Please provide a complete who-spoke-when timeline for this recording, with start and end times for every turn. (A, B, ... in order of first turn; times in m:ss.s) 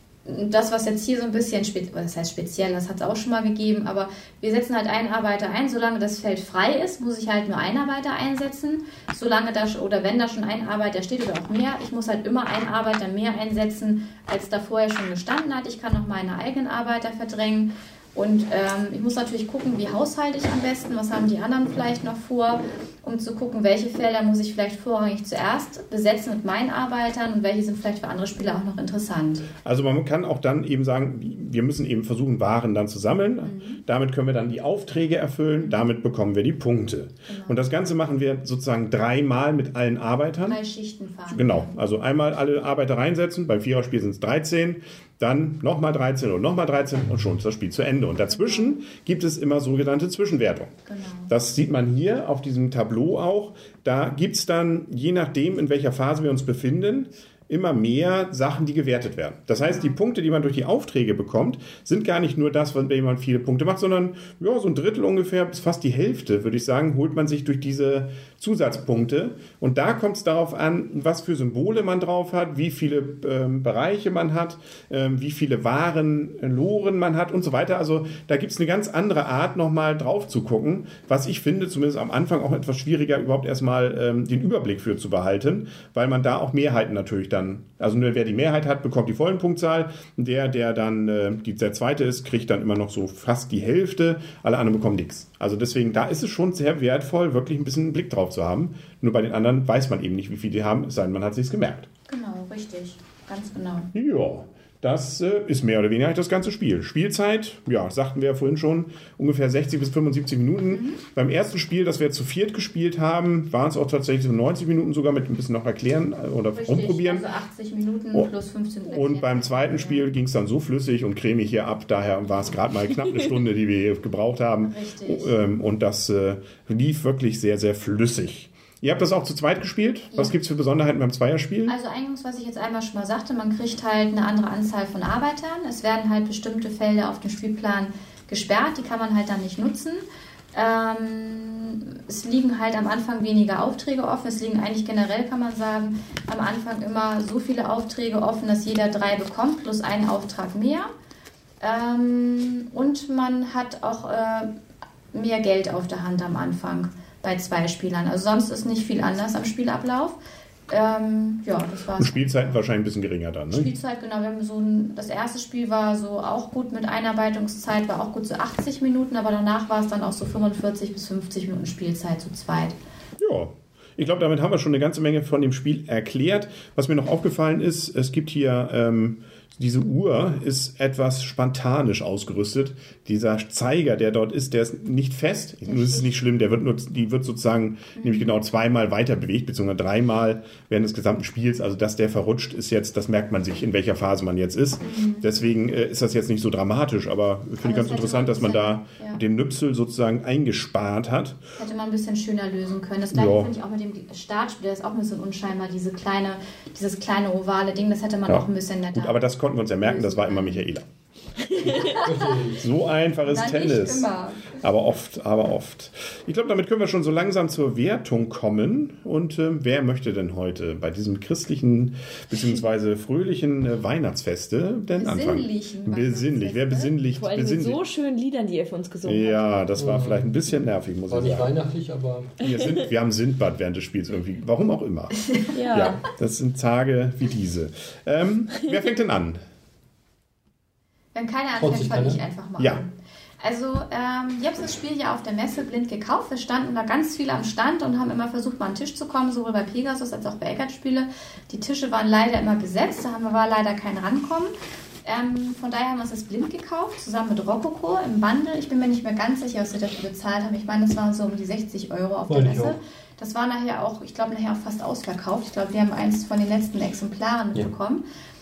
0:00.3-0:29.5 A
0:29.6-0:40.6 B
0:33.4-0:33.8 A
0:35.6-0:35.9 A
0:37.3-0:37.6 A
0:40.4-0:41.7 A
0:41.3-0:50.7 B
0:48.3-0:48.8 A
0:50.9-0:51.3 A
0:51.3-1:41.9 B
0:59.6-1:00.0 A
1:42.1-1:43.9 A
1:43.9-1:57.3 B
1:50.7-1:51.0 A
1:56.6-2:00.1 A
1:58.9-2:11.7 B
2:04.6-2:05.3 A
2:11.7-2:20.0 A
2:20.5-2:30.9 A
2:31.6-2:34.5 A
2:35.1-2:40.2 A
2:40.7-2:42.7 A
2:42.0-2:43.7 B
2:43.5-2:52.8 A
2:53.2-3:21.4 B
3:05.7-3:06.1 A
3:08.0-3:08.3 A
3:14.8-3:15.3 A
3:17.6-3:19.2 A
3:21.6-3:29.2 A
3:23.1-3:23.5 B
3:28.3-3:30.9 B
3:29.8-3:30.6 A
3:31.5-3:32.1 C
3:31.6-3:32.6 D
3:31.7-3:32.4 A
3:32.6-3:47.8 B
3:33.2-3:34.6 A
3:45.0-3:47.0 A
3:47.1-3:49.4 C
3:49.0-3:51.5 B
3:49.8-3:50.4 D
3:51.1-3:52.4 D
3:52.4-3:59.4 B
3:55.5-3:56.0 C
4:01.1-4:14.5 A
4:01.6-4:02.2 D
4:15.0-4:28.0 A
4:22.3-4:22.8 D